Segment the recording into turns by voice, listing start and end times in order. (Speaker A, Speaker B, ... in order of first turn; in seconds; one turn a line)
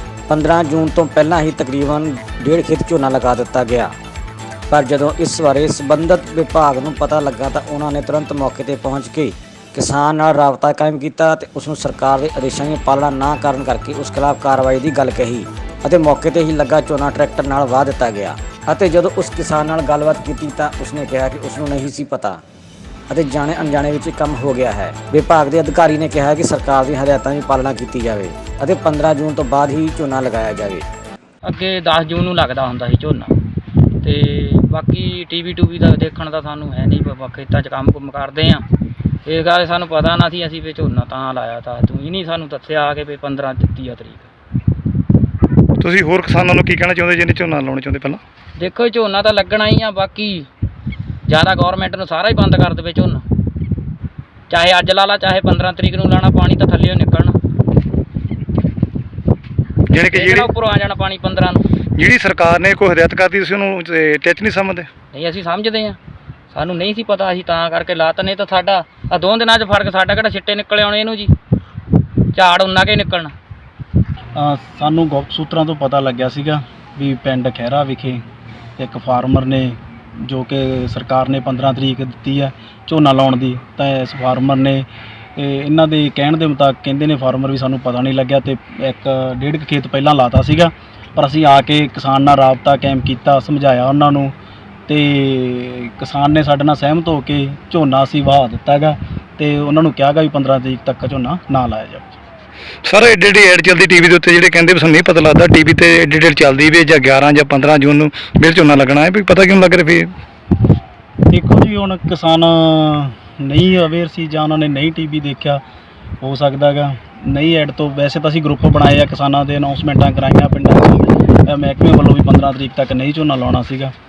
Speaker A: 0.3-3.9
Speaker A: 4.7-22.4
Speaker A: 23.1-30.9
Speaker B: 31.4-33.3
Speaker B: 34.0-38.6
Speaker B: 39.2-44.3
Speaker C: 45.8-48.2
Speaker B: 48.6-50.5
Speaker B: 51.2-53.2
Speaker B: 54.5-57.4
Speaker C: 59.9-60.5
Speaker B: 60.1-61.6
Speaker C: 62.0-64.9
Speaker B: 65.1-66.0
Speaker B: 66.5-71.3
Speaker B: 72.3-73.3
Speaker D: 74.3-78.2
Speaker D: 78.8-94.3
Speaker D: 94.9-102.2
Speaker C: 102.9-110.1
Speaker D: 111.3-115.6
Speaker D: 116.2-123.9